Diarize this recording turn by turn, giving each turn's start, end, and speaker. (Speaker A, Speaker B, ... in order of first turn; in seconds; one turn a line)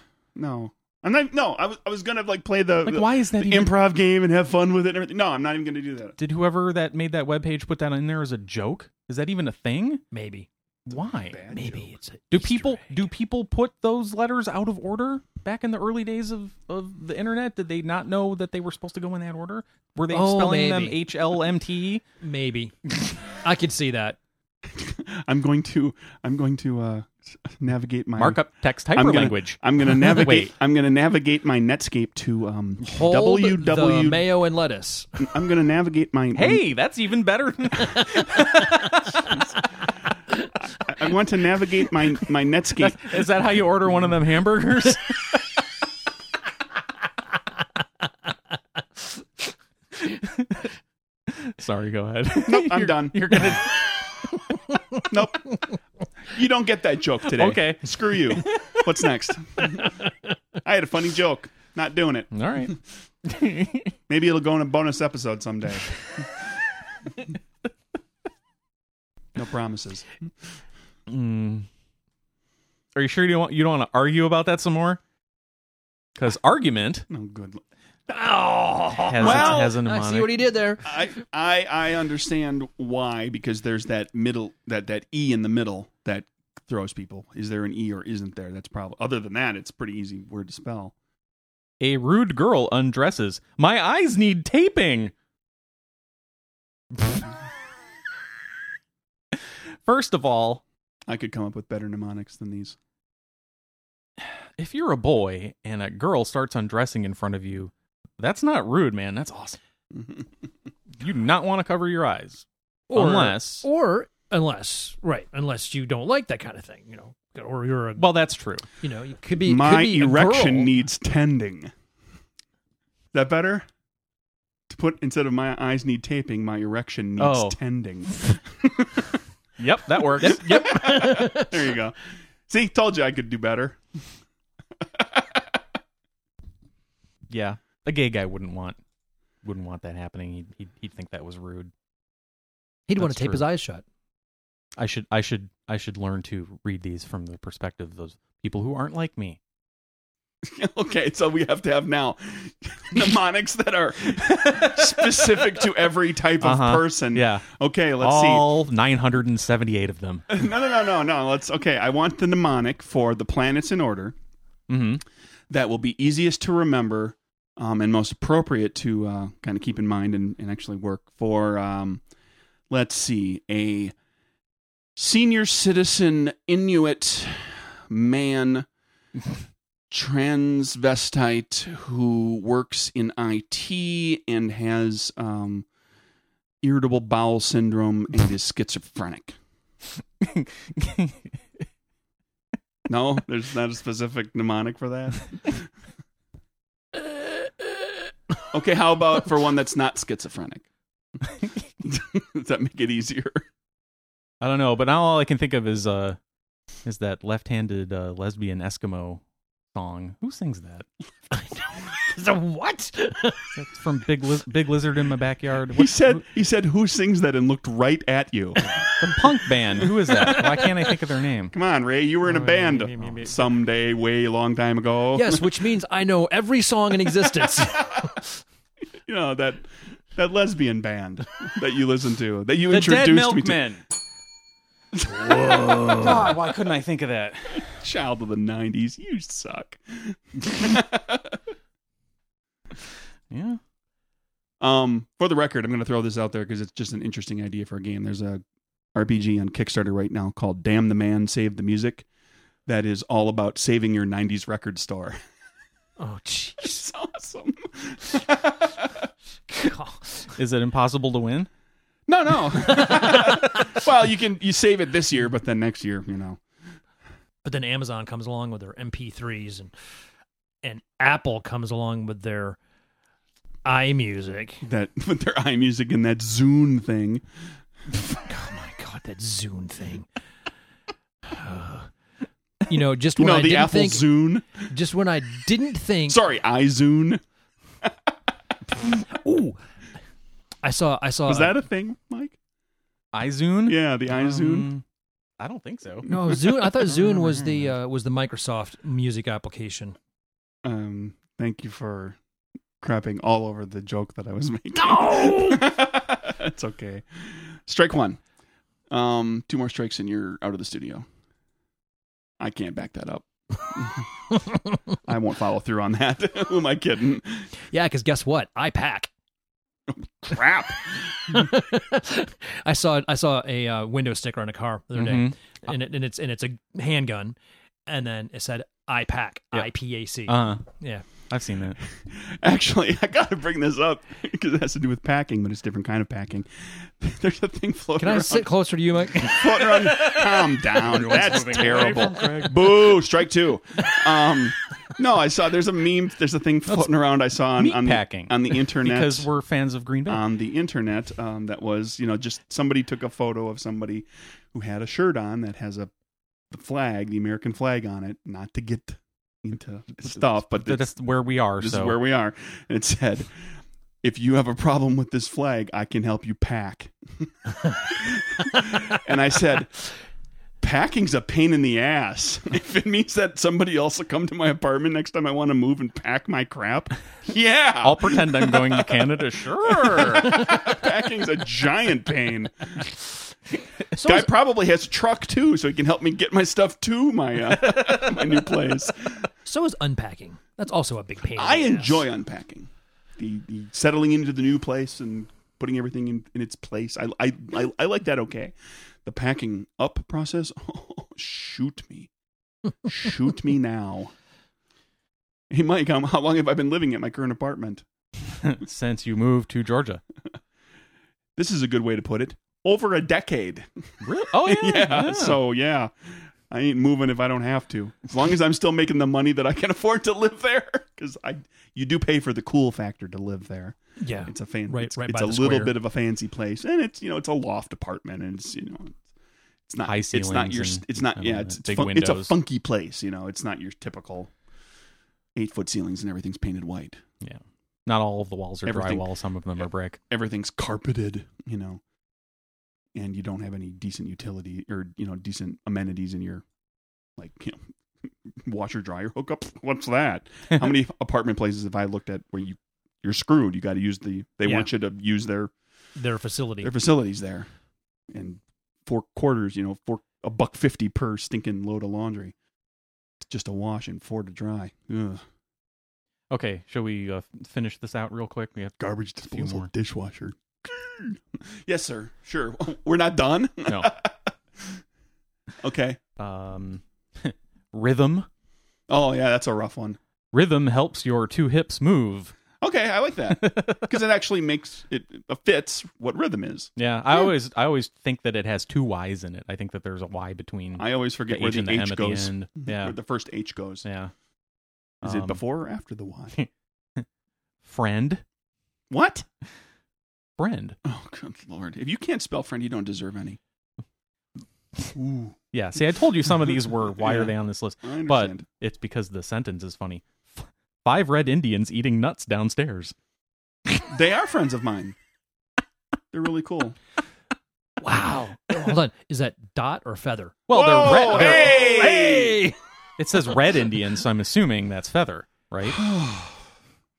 Speaker A: 0.3-6.2
Speaker B: 2.8-3.7
Speaker B: 6.2-10.0
Speaker C: 10.1-10.5
Speaker B: 10.9-11.4
Speaker A: 10.9-11.9
Speaker C: 11.5-13.0
Speaker B: 12.3-22.0
Speaker C: 20.1-21.0
Speaker C: 22.2-24.2
Speaker A: 24.6-28.4
Speaker B: 28.2-30.5
Speaker A: 28.9-34.2
Speaker C: 32.8-35.2
Speaker A: 35.2-36.6
Speaker B: 36.3-39.4
Speaker A: 40.8-43.1
Speaker B: 42.8-45.4
Speaker B: 50.0-50.7
Speaker B: 51.3-54.0
Speaker A: 52.4-53.7
Speaker A: 55.0-55.5
Speaker A: 56.3-60.0
Speaker B: 57.3-58.8
Speaker A: 60.6-62.8
Speaker B: 62.3-64.0
Speaker A: 64.1-66.0
Speaker A: 69.3-70.3
Speaker B: 71.1-71.7
Speaker B: 72.9-75.0
Speaker B: 76.2-77.0
Speaker A: 77.1-77.6
Speaker C: 78.1-81.0
Speaker B: 78.9-80.3
Speaker A: 79.2-79.7
Speaker A: 80.8-90.9
Speaker B: 91.8-95.1
Speaker B: 99.8-100.6
Speaker A: 101.1-102.8
Speaker B: 104.2-109.6
Speaker A: 109.9-110.2
Speaker B: 111.0-113.6
Speaker C: 112.9-118.0
Speaker B: 118.0-118.7
Speaker C: 118.8-120.7
Speaker A: 119.4-121.7
Speaker A: 123.1-123.7
Speaker A: 124.7-129.2
Speaker B: 127.2-127.6
Speaker B: 129.6-130.8
Speaker A: 130.2-133.8
Speaker C: 130.2-131.7
Speaker A: 134.8-135.6
Speaker B: 137.3-138.8
Speaker B: 139.4-141.7
Speaker C: 142.9-143.8
Speaker B: 143.0-143.4
Speaker B: 144.8-149.4
Speaker A: 150.4-158.5
Speaker B: 154.2-155.5
Speaker B: 156.4-157.4
Speaker B: 158.0-160.2
Speaker A: 160.3-164.2
Speaker B: 164.7-165.0
Speaker A: 165.5-172.0
Speaker A: 172.7-173.9
Speaker A: 174.9-178.7
Speaker A: 179.9-185.7
Speaker A: 186.6-189.3
Speaker B: 190.2-191.3
Speaker A: 192.9-195.7
Speaker A: 198.5-200.6
Speaker A: 201.8-203.4
Speaker B: 204.4-206.2
Speaker B: 206.8-209.2
Speaker B: 209.7-210.8
Speaker C: 211.3-213.5
Speaker B: 213.5-216.2
Speaker A: 215.7-218.7
Speaker B: 218.9-221.5
Speaker A: 219.8-220.3
Speaker C: 220.2-220.9
Speaker A: 221.5-225.6
Speaker C: 222.2-223.4
Speaker C: 225.1-228.3
Speaker A: 229.0-233.6
Speaker B: 232.7-233.8
Speaker A: 234.9-236.2
Speaker B: 235.6-237.7
Speaker A: 237.6-241.4
Speaker B: 243.3-243.6
Speaker A: 244.6-248.4
Speaker A: 248.9-252.1
Speaker A: 252.7-255.2
Speaker C: 256.0-256.8
Speaker A: 256.6-259.1
Speaker C: 259.5-260.3
Speaker B: 260.3-261.5
Speaker A: 262.1-266.4
Speaker C: 263.0-263.4
Speaker C: 267.4-269.7
Speaker C: 270.6-272.6
Speaker C: 273.6-274.6
Speaker A: 274.6-277.2
Speaker C: 277.9-280.1
Speaker C: 281.2-281.9
Speaker C: 282.6-286.2
Speaker A: 283.1-284.7
Speaker A: 286.1-287.2
Speaker C: 288.8-289.6
Speaker C: 290.6-291.6
Speaker A: 291.3-292.4
Speaker B: 293.1-294.8
Speaker A: 293.6-294.7
Speaker B: 295.4-296.1
Speaker C: 296.1-299.9
Speaker A: 296.1-297.2
Speaker A: 300.6-302.2
Speaker A: 302.8-308.2
Speaker C: 304.8-305.6
Speaker A: 308.9-311.1
Speaker A: 312.4-314.1
Speaker A: 315.0-317.5
Speaker C: 317.7-319.1
Speaker A: 319.9-321.4
Speaker C: 321.3-327.4
Speaker B: 324.9-325.4
Speaker C: 327.9-331.0
Speaker B: 330.3-330.7
Speaker B: 331.3-331.8
Speaker A: 331.9-338.5
Speaker C: 338.0-340.1
Speaker A: 339.2-349.3
Speaker B: 340.0-342.9
Speaker B: 347.5-350.2
Speaker A: 350.1-355.9
Speaker A: 356.5-360.9
Speaker B: 360.0-362.0
Speaker A: 361.6-363.4
Speaker A: 364.0-369.8
Speaker A: 370.6-379.1
Speaker B: 377.8-380.5
Speaker A: 379.6-382.9
Speaker C: 383.9-384.3
Speaker A: 383.9-389.3
Speaker B: 387.6-388.2
Speaker C: 389.4-392.1
Speaker A: 391.3-402.1
Speaker A: 402.8-404.1
Speaker A: 405.5-407.8
Speaker B: 408.4-410.0
Speaker A: 411.4-413.8
Speaker B: 414.0-415.4
Speaker A: 414.3-429.0
Speaker C: 424.0-425.8
Speaker A: 429.7-434.3
Speaker B: 429.8-432.3
Speaker A: 435.4-437.0
Speaker B: 437.2-440.0
Speaker A: 438.6-439.0
Speaker A: 440.1-441.8
Speaker A: 442.9-446.4
Speaker A: 447.2-447.6
Speaker A: 448.2-455.5
Speaker C: 454.4-454.7
Speaker C: 455.9-456.7
Speaker A: 456.6-457.5
Speaker A: 458.1-462.3
Speaker A: 463.2-465.2
Speaker B: 466.3-469.7
Speaker A: 468.8-474.8
Speaker A: 475.6-476.0
Speaker B: 476.2-478.3
Speaker A: 478.9-480.0
Speaker B: 480.3-482.3
Speaker A: 482.6-487.3
Speaker B: 483.3-483.9
Speaker B: 486.8-492.9
Speaker A: 490.8-493.8
Speaker B: 493.8-494.1
Speaker A: 495.0-496.3
Speaker B: 495.0-495.4
Speaker B: 496.3-497.1
Speaker B: 497.6-498.2
Speaker A: 498.9-499.2
Speaker B: 500.4-500.8
Speaker A: 500.8-503.4
Speaker A: 504.9-505.4
Speaker B: 505.5-512.9
Speaker A: 507.0-507.3
Speaker A: 507.8-508.4
Speaker A: 513.8-515.0
Speaker A: 516.1-516.8
Speaker C: 517.8-522.6
Speaker B: 520.5-521.7
Speaker A: 520.5-522.5
Speaker B: 523.0-525.8
Speaker A: 525.7-526.4